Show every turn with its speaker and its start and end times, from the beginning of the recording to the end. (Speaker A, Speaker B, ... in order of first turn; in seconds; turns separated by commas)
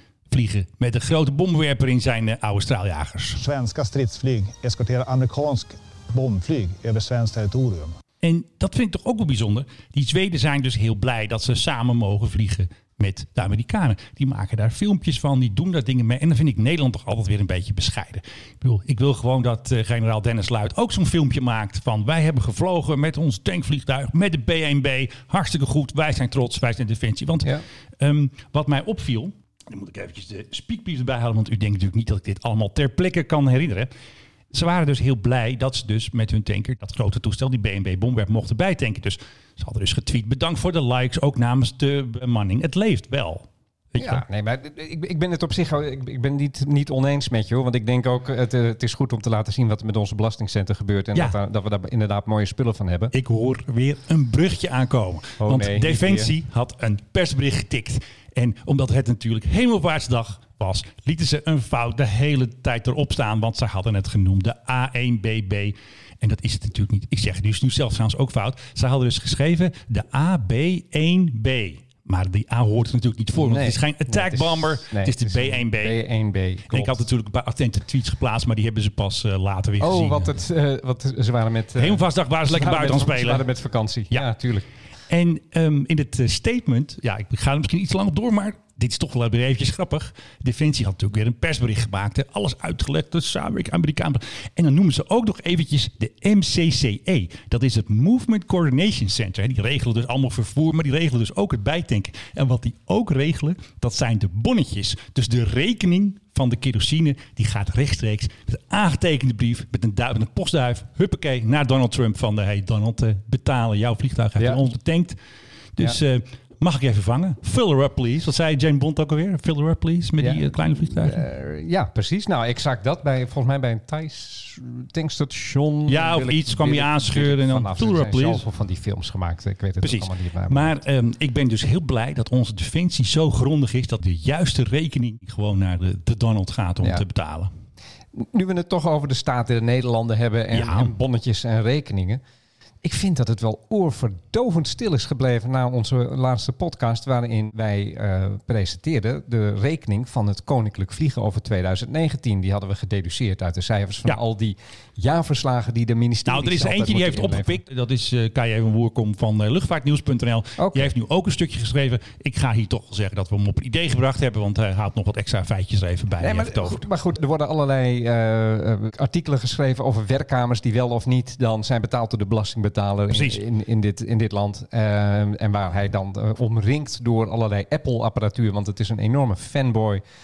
Speaker A: 0.3-3.4, Speaker B: 3.4-7.9, Speaker A: 8.2-33.9, Speaker A: 34.5-44.2, Speaker C: 44.0-53.1, Speaker A: 53.1-76.0, Speaker C: 55.4-56.3, Speaker C: 73.4-77.0, Speaker A: 76.7-80.3, Speaker C: 79.8-84.7, Speaker A: 81.8-83.5, Speaker A: 85.1-115.2, Speaker C: 114.4-114.6, Speaker A: 115.8-121.2, Speaker C: 120.2-130.8, Speaker A: 125.9-128.4, Speaker A: 129.8-137.5, Speaker C: 138.2-142.2, Speaker A: 140.5-140.9, Speaker C: 142.8-157.6, Speaker A: 156.2-166.8, Speaker C: 160.6-160.9, Speaker C: 166.2-180.0, Speaker A: 173.1-173.4